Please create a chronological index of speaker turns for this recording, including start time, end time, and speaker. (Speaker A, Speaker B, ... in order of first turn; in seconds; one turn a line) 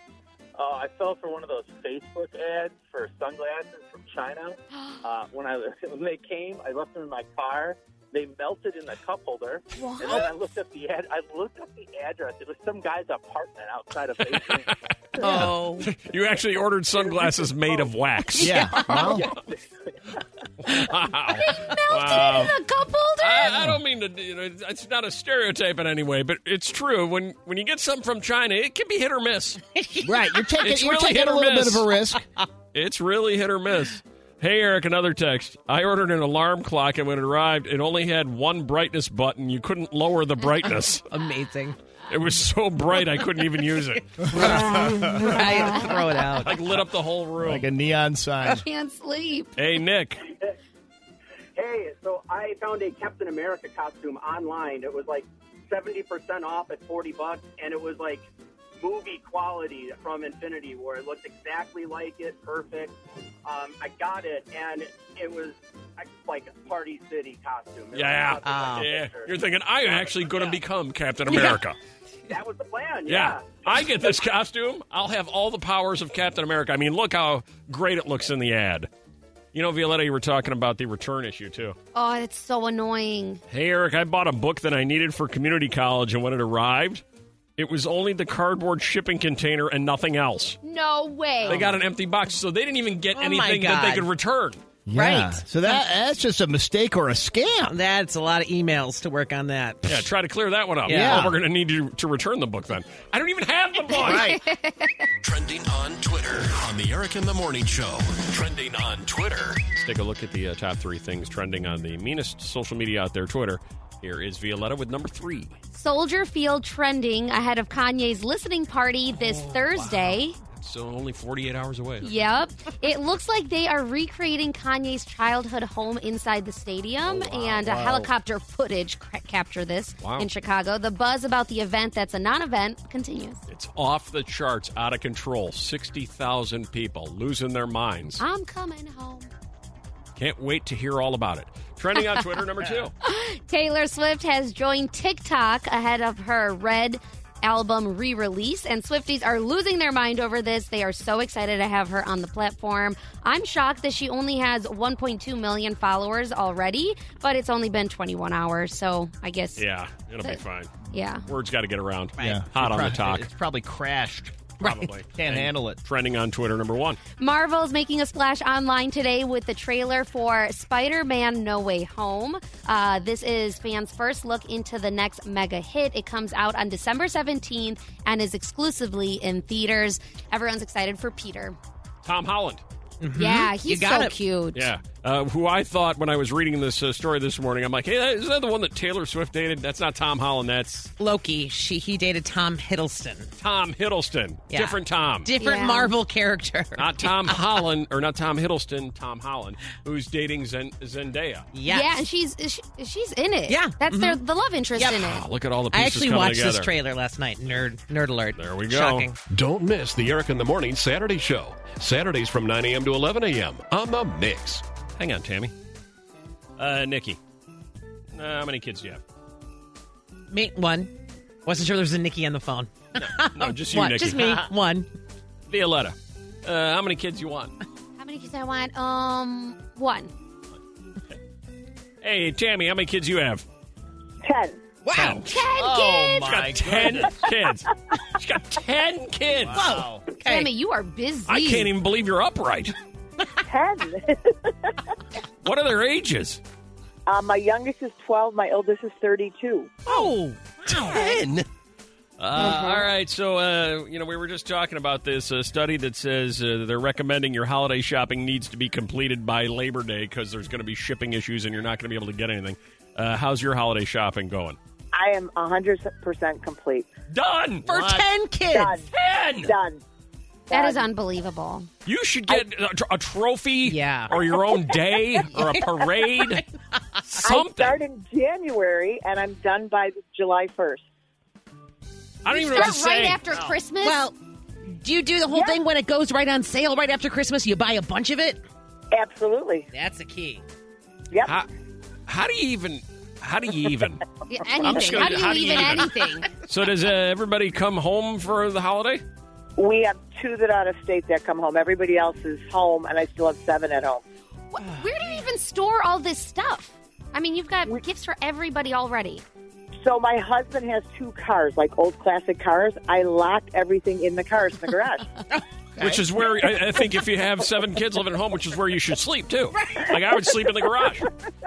Speaker A: 0.6-14.8
Speaker B: 9.7-10.3
Speaker C: 15.2-15.9
Speaker D: 15.2-15.6
Speaker E: 15.2-19.3
Speaker C: 18.4-19.2
Speaker D: 18.4-19.3
Speaker A: 19.3-19.6
Speaker E: 20.6-22.5
Speaker B: 21.4-23.6
Speaker E: 23.2-29.6
Speaker D: 23.4-23.8
Speaker C: 29.7-30.5
Speaker D: 30.0-32.2
Speaker E: 30.6-31.9
Speaker E: 32.7-41.0
Speaker C: 41.1-41.7
Speaker E: 42.1-44.5
Speaker C: 44.2-46.7
Speaker D: 44.3-45.5
Speaker B: 45.6-45.9
Speaker E: 46.4-47.7
Speaker D: 47.4-48.6
Speaker B: 48.4-49.5
Speaker E: 49.6-50.2
Speaker A: 51.5-58.3
Speaker A: 58.8-62.9
Speaker A: 63.4-69.4
Speaker E: 67.9-71.8
Speaker C: 68.4-68.9
Speaker A: 70.0-70.5
Speaker C: 71.3-71.6
Speaker A: 72.3-73.9
Speaker E: 73.1-78.9
Speaker E: 79.5-81.8
Speaker B: 81.9-83.4
Speaker E: 83.5-87.0
Speaker E: 87.6-90.6
Speaker B: 90.6-91.7
Speaker E: 91.4-94.6
Speaker C: 91.5-91.7
Speaker C: 93.1-94.1
Speaker D: 94.9-97.8
Speaker C: 94.9-95.8
Speaker C: 97.6-100.1
Speaker E: 99.8-104.3
Speaker C: 100.9-101.3
Speaker D: 100.9-101.4
Speaker B: 103.9-105.1
Speaker D: 103.9-104.4
Speaker F: 105.2-109.7
Speaker E: 109.7-115.5
Speaker B: 115.7-120.3
Speaker E: 119.5-122.1
Speaker B: 122.0-133.4
Speaker E: 127.0-128.1
Speaker E: 130.0-130.3
Speaker E: 133.5-138.2
Speaker B: 138.2-139.3
Speaker E: 140.2-142.9
Speaker B: 143.0-159.6
Speaker E: 159.6-160.7
Speaker B: 160.9-161.2
Speaker E: 161.3-163.3
Speaker C: 162.2-162.4
Speaker D: 162.2-164.5
Speaker C: 164.6-164.9
Speaker E: 164.6-167.0
Speaker D: 165.1-165.8
Speaker B: 167.2-181.6
Speaker E: 182.0-182.6
Speaker C: 183.0-184.2
Speaker B: 183.1-184.7
Speaker E: 184.5-190.9
Speaker C: 191.0-193.3
Speaker E: 193.4-195.3
Speaker C: 194.5-197.6
Speaker B: 195.4-195.9
Speaker E: 196.8-201.5
Speaker C: 201.5-202.0
Speaker B: 201.7-205.2
Speaker C: 203.5-204.2
Speaker C: 204.8-205.1
Speaker E: 204.9-206.7
Speaker C: 205.7-209.2
Speaker E: 208.3-209.1
Speaker F: 209.3-214.6
Speaker E: 215.0-215.5
Speaker E: 216.6-217.2
Speaker E: 218.1-219.0
Speaker C: 220.3-224.9
Speaker E: 223.1-224.5
Speaker E: 225.5-227.5
Speaker B: 228.0-230.1
Speaker E: 232.0-233.4
Speaker G: 234.2-234.6
Speaker C: 234.8-235.2
Speaker E: 234.9-235.4
Speaker B: 235.2-236.4
Speaker D: 235.5-237.3
Speaker E: 236.2-239.8
Speaker D: 239.4-240.0
Speaker C: 239.5-240.5
Speaker B: 240.2-241.7
Speaker E: 241.3-242.8
Speaker G: 243.4-244.8
Speaker E: 245.4-246.4
Speaker G: 247.1-249.7
Speaker C: 249.8-251.4
Speaker E: 250.9-251.2
Speaker E: 252.2-264.6
Speaker G: 252.4-252.8
Speaker G: 264.9-266.9
Speaker E: 267.1-267.7
Speaker C: 267.7-268.8
Speaker D: 267.7-268.0
Speaker G: 268.5-268.9
Speaker E: 268.9-269.5
Speaker G: 269.4-269.8
Speaker G: 270.5-270.8
Speaker B: 270.5-271.7
Speaker E: 271.8-276.4
Speaker C: 273.6-274.2
Speaker C: 275.3-276.8
Speaker E: 277.1-277.8
Speaker G: 277.2-280.8
Speaker E: 282.2-283.2
Speaker B: 282.3-284.1
Speaker C: 283.8-284.1
Speaker C: 284.8-288.4
Speaker G: 285.3-285.6
Speaker G: 288.9-289.7
Speaker C: 289.7-290.4
Speaker E: 292.1-294.0
Speaker B: 294.3-296.3
Speaker E: 294.6-299.0
Speaker G: 299.6-304.0
Speaker B: 304.5-309.2
Speaker G: 309.8-315.2
Speaker D: 315.8-316.1
Speaker E: 315.8-321.1